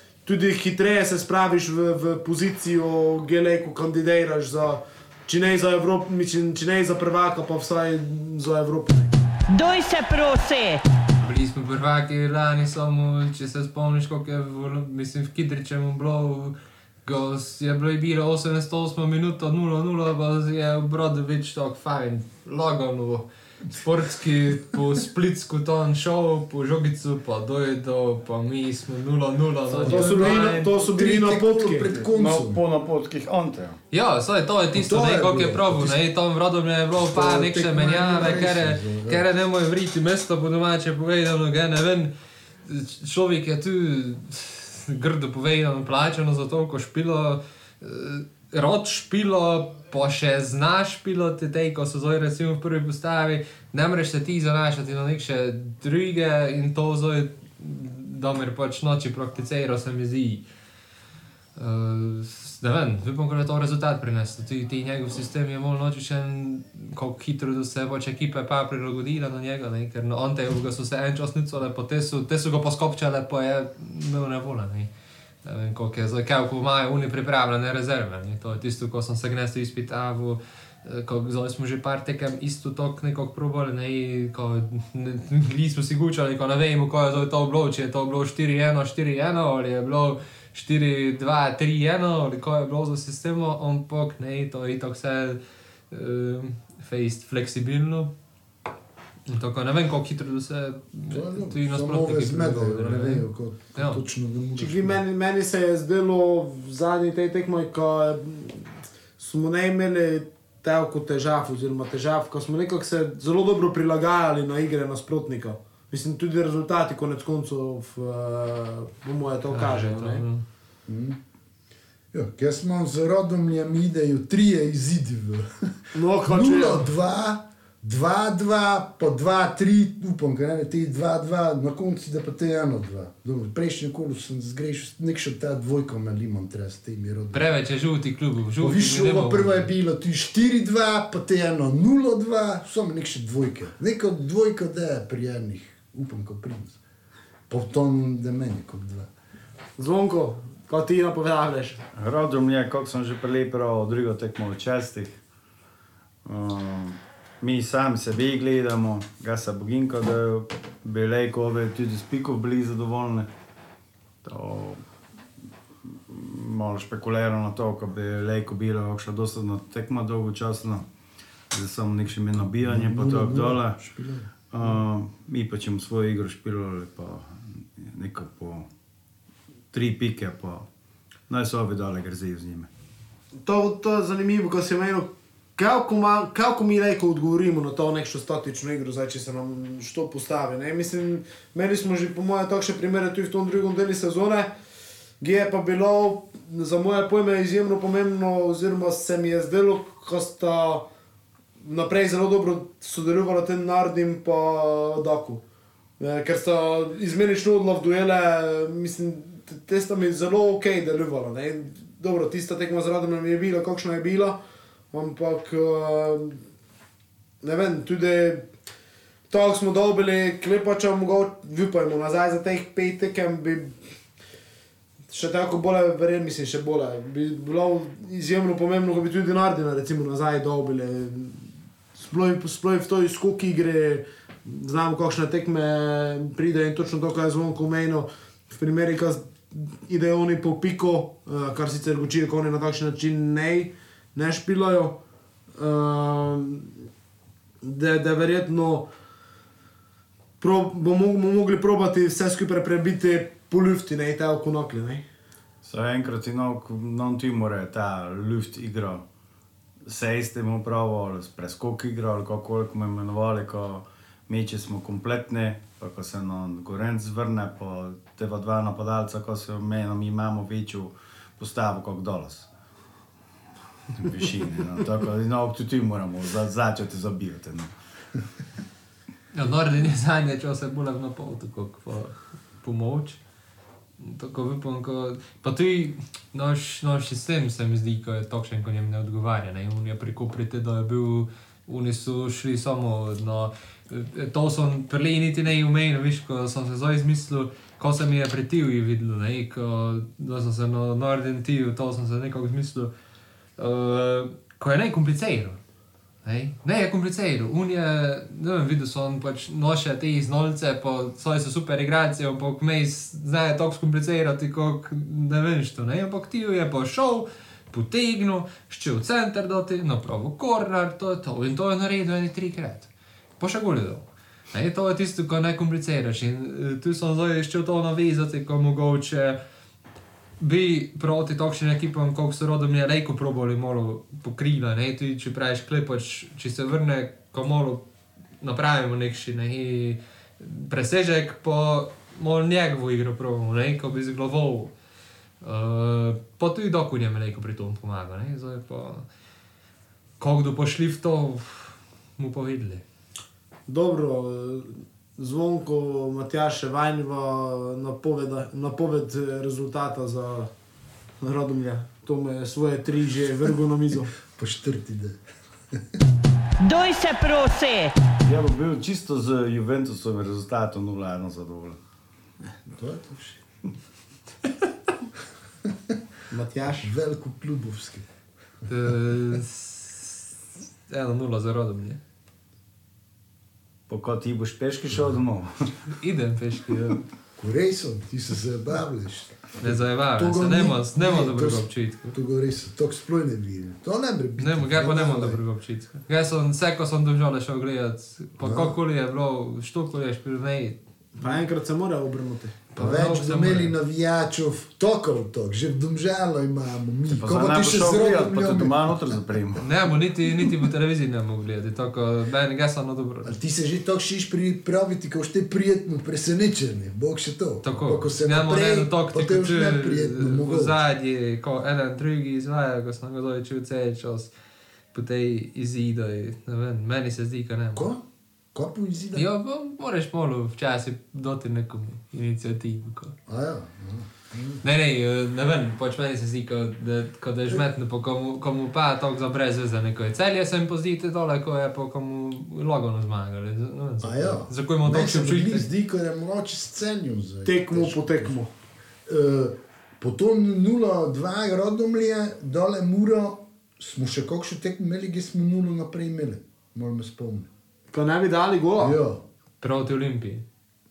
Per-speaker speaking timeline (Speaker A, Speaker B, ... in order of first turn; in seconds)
Speaker A: 0.2-9.1, 29.8-32.0, 104.6-120.2, 125.9-126.8, 149.8-151.8, 183.3-194.5, 195.2-200.9, 201.6-205.4, 206.0-214.4, 214.9-216.4, 217.4-218.5, 219.3-223.7, 225.1-231.4, 231.9-245.0, 245.6-246.7, 247.6-248.9, 250.4-255.1, 353.7-360.5, 361.2-364.1, 376.3-376.9, 401.2-402.6, 447.4-448.5, 457.9-459.0
Speaker B: 9.5-10.8, 366.6-367.9
Speaker C: 11.2-30.7, 33.9-42.1, 42.6-60.4, 61.6-74.9, 75.4-95.4, 95.9-98.1, 99.3-104.0, 119.5-120.4, 137.3-139.7, 279.3-283.2, 284.0-302.9, 303.6-305.6, 306.2-322.9, 323.4-329.4, 330.4-337.9, 338.4-344.7, 345.4-349.1, 350.2-352.8, 378.7-380.3, 380.9-382.0, 386.0-387.0, 389.6-392.1, 394.4-400.8, 402.7-403.7, 409.6-413.4, 417.6-424.3, 424.9-427.9, 429.1-433.2, 434.6-445.7, 459.6-460.4
Speaker D: 29.7-32.6, 34.7-36.0, 37.0-39.3, 101.1-105.0, 120.9-121.2, 122.1-137.5, 138.6-146.8, 147.5-149.1, 172.4-174.8, 364.3-365.2, 372.7-373.4, 375.7-376.0, 376.8-378.1, 387.4-395.4, 398.4-398.8, 402.8-409.2, 413.2-420.8, 427.8-429.3, 433.3-434.6, 444.0-448.4, 449.1-457.5, 458.8-459.2
Speaker E: 32.0-33.8, 152.0-155.2, 156.2-163.3, 164.2-164.8, 166.1-170.9, 171.5-173.8, 174.5-178.7, 179.7-180.7, 181.3-182.7, 255.6-259.1, 259.9-272.5, 273.9-277.7, 368.2-371.8, 383.9-385.5, 407.1-409.6